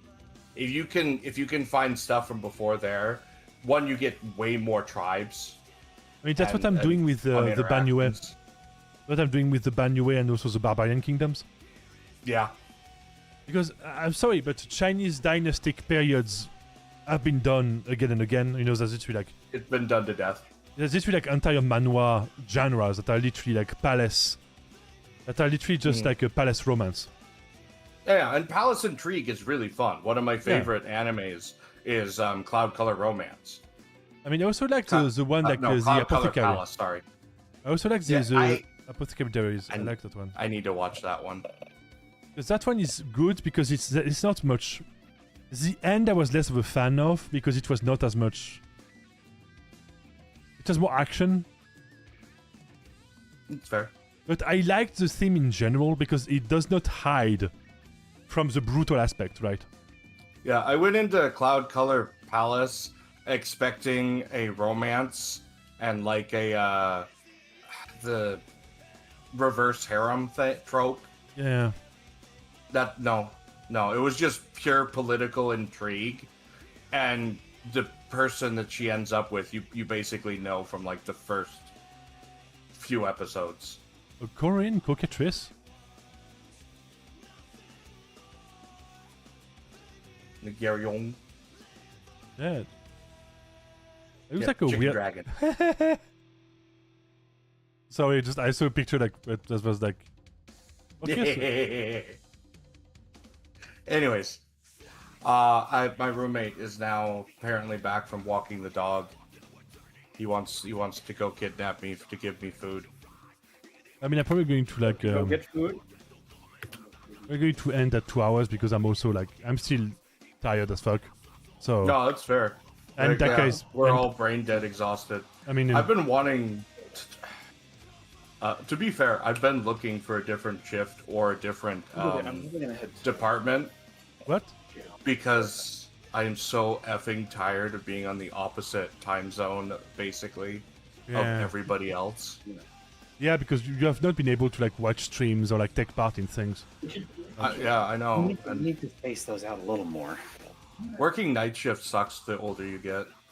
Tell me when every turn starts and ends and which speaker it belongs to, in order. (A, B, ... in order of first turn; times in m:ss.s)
0:00.5-0:05.6 A
0:06.2-0:08.2 B
0:06.4-0:08.4 A
0:09.1-0:11.4 B
0:12.2-0:12.5 A
0:13.5-0:16.5 B
0:17.0-0:19.3 B
0:19.5-0:20.4 A
0:20.8-0:24.4 B
0:25.3-0:27.1 B
0:25.8-0:26.1 A
0:28.0-0:33.6 A
0:30.4-0:30.7 B
0:34.2-0:36.6 B
0:34.9-0:37.0 A
0:37.6-0:40.3 B
0:38.0-0:38.6 A
0:39.7-0:41.4 A
0:42.3-0:44.8 B
0:45.5-0:48.6 B
0:50.6-0:51.5 B
0:53.5-0:53.9 A
0:54.3-0:57.5 B
0:58.3-0:59.6 B
1:00.4-1:07.1 A
1:07.9-1:08.4 A
1:09.3-1:11.1 A
1:11.4-1:11.7 B
1:12.7-1:16.3 A
1:16.9-1:21.7 A
1:22.7-1:23.8 A
1:24.2-1:25.5 B
1:30.4-1:31.2 A
1:32.4-1:32.7 B
1:34.3-1:36.0 B
1:34.4-1:35.3 A
1:37.9-1:40.1 B
1:41.0-1:41.5 B
1:41.0-1:42.2 A
1:43.9-1:44.4 A
1:45.2-1:49.2 A
1:50.2-1:52.9 A
1:54.0-1:55.4 B
1:54.9-1:55.8 C
1:57.3-2:02.0 B
2:01.8-2:07.2 A
2:03.0-2:04.1 B
2:05.4-2:05.9 B
2:08.4-2:12.5 A
2:11.9-2:13.2 C
2:13.0-2:13.7 A
2:14.2-2:14.5 B
2:15.0-2:22.4 A
2:21.1-2:21.6 B
2:23.2-2:26.7 B
2:26.8-2:30.2 C
2:27.4-2:27.6 B
2:27.4-2:28.7 A
2:31.0-2:33.1 A